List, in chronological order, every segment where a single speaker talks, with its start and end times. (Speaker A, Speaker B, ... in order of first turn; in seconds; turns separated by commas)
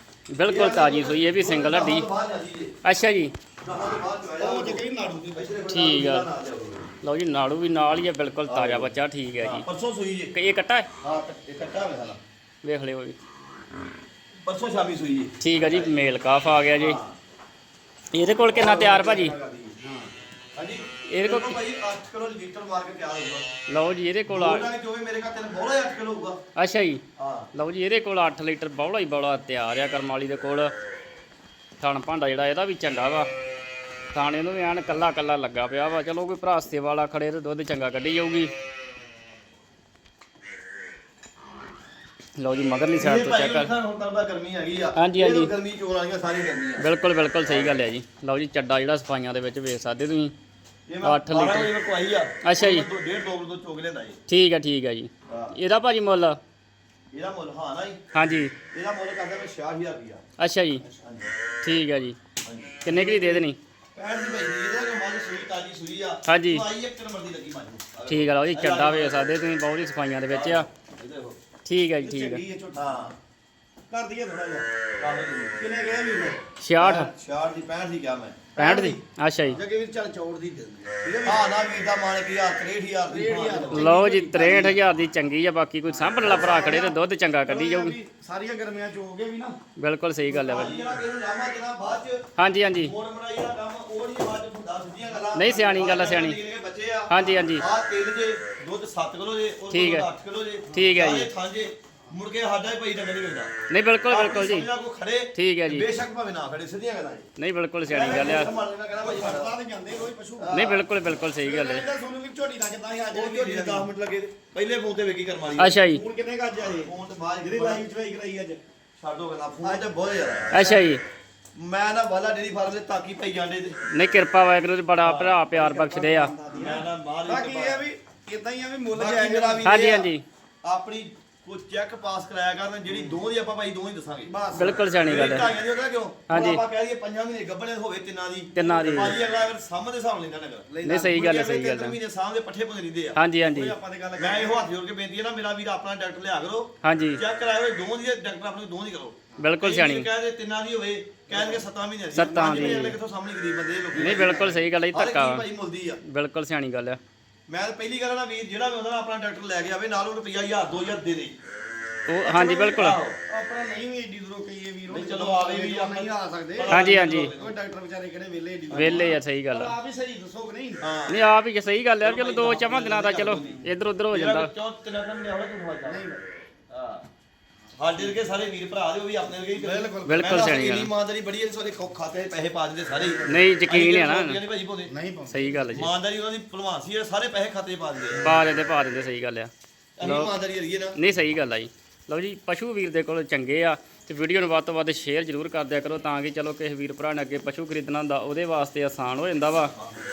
Speaker A: 0.3-2.1, Speaker B: 0.5-2.8, Speaker A: 2.8-3.3, Speaker B: 3.6-6.9, Speaker C: 4.4-5.6, Speaker A: 5.7-6.3, Speaker A: 7.0-9.7, Speaker B: 8.5-10.3, Speaker A: 10.3-10.9, Speaker B: 11.0-12.2, Speaker A: 12.6-13.2, Speaker B: 14.4-15.9, Speaker A: 15.4-17.0, Speaker B: 16.7-17.2, Speaker A: 18.1-19.3, Speaker B: 18.5-19.8, Speaker C: 19.8-20.1, Speaker B: 20.5-23.5, Speaker A: 21.1-21.6, Speaker A: 23.7-24.7, Speaker B: 24.3-26.4, Speaker A: 26.6-27.0, Speaker B: 27.2-27.5, Speaker A: 27.6-30.7, Speaker A: 31.8-33.3, Speaker A: 34.1-38.5, Speaker A: 42.4-43.7, Speaker B: 43.0-46.9, Speaker A: 45.0-45.5, Speaker A: 46.8-50.3, Speaker B: 47.4-47.9, Speaker B: 50.9-54.2, Speaker A: 51.0-51.7, Speaker A: 52.4-52.9, Speaker A: 54.3-56.4, Speaker B: 55.3-55.5, Speaker B: 57.1-60.2, Speaker A: 58.1-58.5, Speaker A: 60.4-60.9, Speaker B: 61.0-61.3, Speaker A: 61.6-62.2, Speaker B: 62.4-69.4, Speaker A: 62.8-63.6, Speaker A: 66.3-66.7, Speaker A: 68.1-70.7, Speaker B: 70.3-71.4, Speaker A: 71.7-72.4, Speaker C: 72.0-73.1, Speaker B: 72.7-73.2, Speaker C: 73.9-74.7, Speaker B: 75.0-75.7, Speaker C: 75.6-77.1, Speaker A: 76.6-77.1, Speaker B: 76.8-78.6, Speaker C: 78.5-79.0, Speaker A: 78.6-79.6, Speaker C: 79.5-81.5, Speaker B: 81.0-84.8, Speaker C: 83.1-84.6, Speaker A: 83.7-88.0, Speaker C: 85.9-86.9, Speaker B: 86.2-87.0, Speaker C: 87.5-89.6, Speaker A: 89.8-90.8, Speaker C: 90.3-91.0, Speaker B: 90.5-103.5, Speaker A: 92.4-92.9, Speaker A: 95.3-96.4, Speaker A: 97.1-97.7, Speaker A: 99.7-100.1, Speaker A: 100.7-101.3, Speaker A: 103.7-104.7, Speaker B: 104.1-107.3, Speaker A: 105.3-105.9, Speaker A: 107.4-108.5, Speaker B: 107.9-109.5, Speaker C: 109.0-110.7, Speaker B: 110.4-110.9, Speaker A: 110.5-111.8, Speaker C: 111.4-113.9, Speaker B: 113.1-115.8, Speaker A: 115.6-116.0, Speaker C: 115.8-118.6, Speaker B: 116.8-117.8, Speaker B: 119.0-120.9, Speaker A: 120.5-121.0, Speaker B: 121.5-123.8, Speaker A: 123.9-126.3, Speaker B: 125.0-125.5, Speaker C: 125.5-129.8, Speaker B: 126.5-127.9, Speaker B: 128.9-130.1, Speaker A: 129.6-130.2, Speaker B: 130.6-143.2, Speaker C: 134.3-135.1, Speaker A: 134.5-135.5, Speaker A: 136.3-136.6, Speaker A: 138.6-139.2, Speaker C: 140.7-141.2, Speaker A: 140.8-142.0, Speaker A: 143.2-143.7, Speaker C: 143.5-144.6, Speaker B: 144.2-156.0, Speaker A: 146.8-147.2, Speaker A: 149.4-150.1, Speaker C: 151.3-151.6, Speaker A: 152.1-153.0, Speaker C: 152.2-152.9, Speaker A: 154.0-155.5, Speaker C: 154.0-154.5, Speaker A: 156.0-157.0, Speaker B: 157.5-161.4, Speaker A: 162.1-163.0, Speaker B: 162.2-163.2, Speaker C: 163.3-166.8, Speaker B: 164.9-167.6, Speaker A: 166.7-167.3, Speaker C: 167.3-170.9, Speaker B: 168.7-169.2, Speaker A: 168.7-169.7, Speaker B: 170.8-171.2, Speaker A: 171.1-174.5, Speaker B: 172.0-176.0, Speaker C: 173.4-173.7, Speaker C: 175.9-176.3, Speaker B: 176.7-177.1, Speaker B: 177.8-184.9, Speaker C: 179.5-180.4, Speaker A: 180.1-180.9, Speaker A: 183.3-184.4, Speaker C: 184.9-185.7, Speaker A: 185.3-185.9, Speaker B: 185.7-188.4, Speaker C: 188.1-188.5, Speaker A: 188.2-190.3, Speaker B: 190.0-190.9, Speaker A: 191.0-199.7